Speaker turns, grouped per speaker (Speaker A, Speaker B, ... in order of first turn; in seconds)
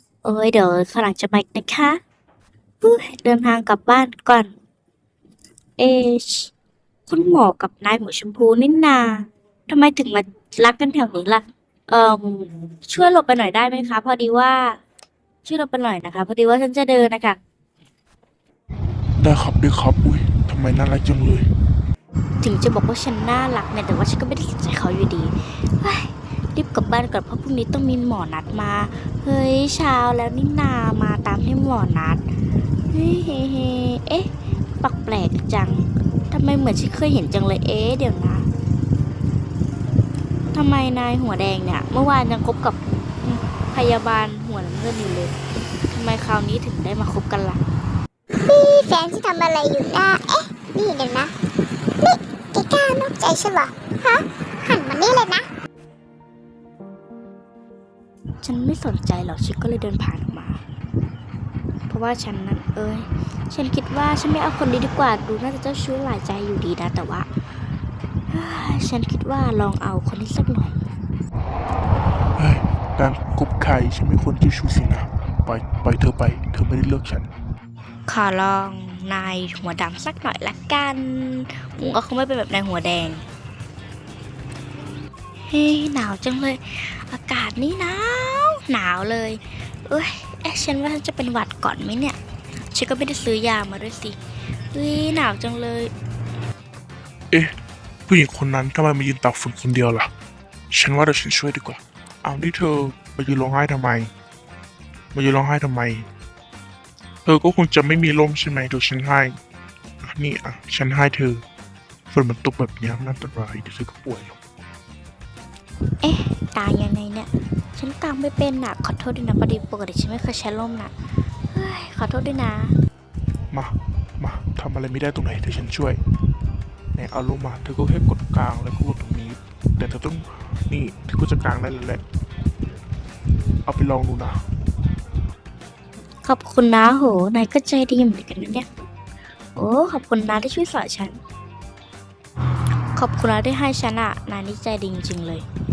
Speaker A: 0.2-2.0, 2.8-4.5, 5.8-6.5, 7.1-14.8, 15.4-17.4, 22.4-32.2, 32.9-34.3, 34.8-38.5, 40.5-45.3, 45.9-47.6, 58.4-60.6, 61.9-67.3, 68.3-70.8, 78.1-83.2, 85.5-92.2, 92.7-94.2, 94.7-95.9, 116.0-120.9, 121.5-122.8, 136.2-138.7, 139.6-141.2, 143.0-145.4
Speaker B: 19.2-21.5, 72.4-77.3, 98.1-100.1, 100.7-104.1, 105.1-106.1, 107.2-109.4, 110.0-111.4, 112.1-114.4, 123.5-126.0, 127.0-132.0, 133.7-134.4
Speaker C: 48.4-51.3, 52.0-55.5